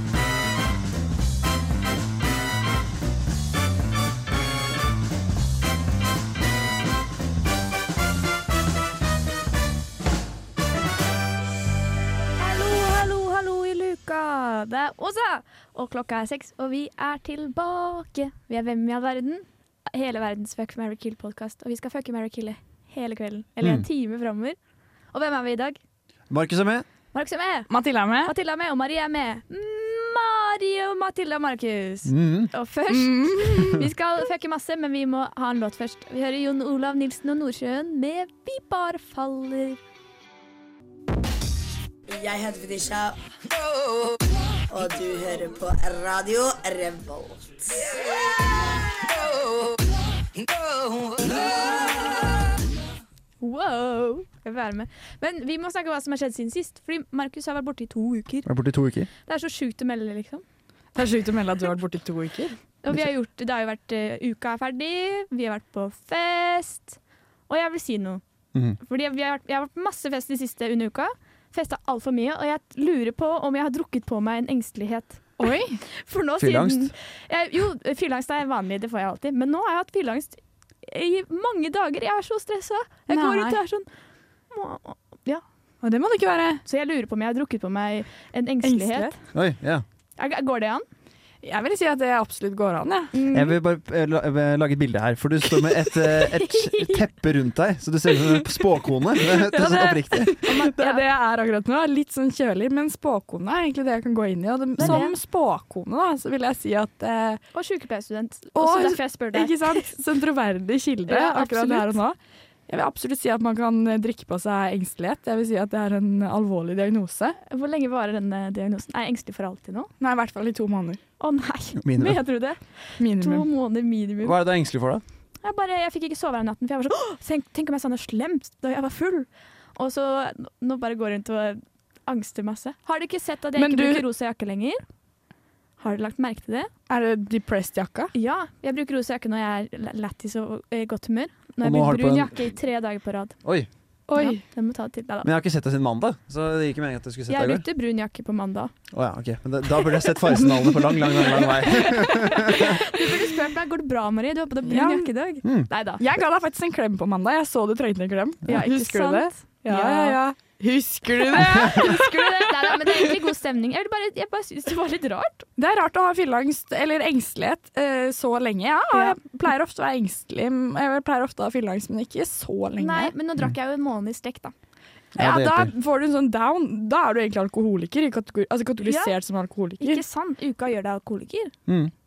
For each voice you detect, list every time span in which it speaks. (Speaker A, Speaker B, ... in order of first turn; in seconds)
Speaker A: 12.4-24.6, 25.1-25.8, 27.1-27.7, 28.2-39.8, 53.4-58.5, 59.2-60.4, 62.8-67.0, 67.5-68.2, 68.8-83.9, 84.5-85.4, 86.6-89.1, 90.2-90.8, 93.1-93.5, 96.2-97.0, 100.4-101.0, 104.8-105.2, 107.5-109.9, 111.1-112.0, 117.4-119.9, 121.2-124.3, 125.4-134.8, 135.8-136.7, 138.1-143.4, 144.2-145.3, 147.3-148.7, 151.6-156.0, 158.5-160.2, 161.2-165.5, 168.9-169.2, 172.8-174.5, 178.8-179.1, 179.8-181.5
Speaker B: 26.3-26.9, 32.0-32.5, 58.5-59.1, 68.5-68.8, 76.4-76.9, 89.3-89.8, 93.3-100.3, 121.8-122.2, 124.2-125.0, 141.6-142.4, 145.2-147.7, 148.9-152.8, 155.4-155.7, 175.2-175.7, 181.7-181.9
Speaker C: 27.7-28.3, 32.9-33.9, 61.0-62.6, 75.4-75.8, 83.1-83.6, 85.8-86.6, 88.6-89.1, 91.4-93.1, 99.3-107.4, 108.6-112.2, 112.7-117.4, 120.0-121.0, 123.0-123.5, 133.6-134.1, 136.9-138.1, 144.1-144.4, 151.8-152.5, 154.6-155.1, 156.0-163.1, 165.6-173.1, 175.2-180.0
Speaker D: 42.1-43.2, 44.7-47.9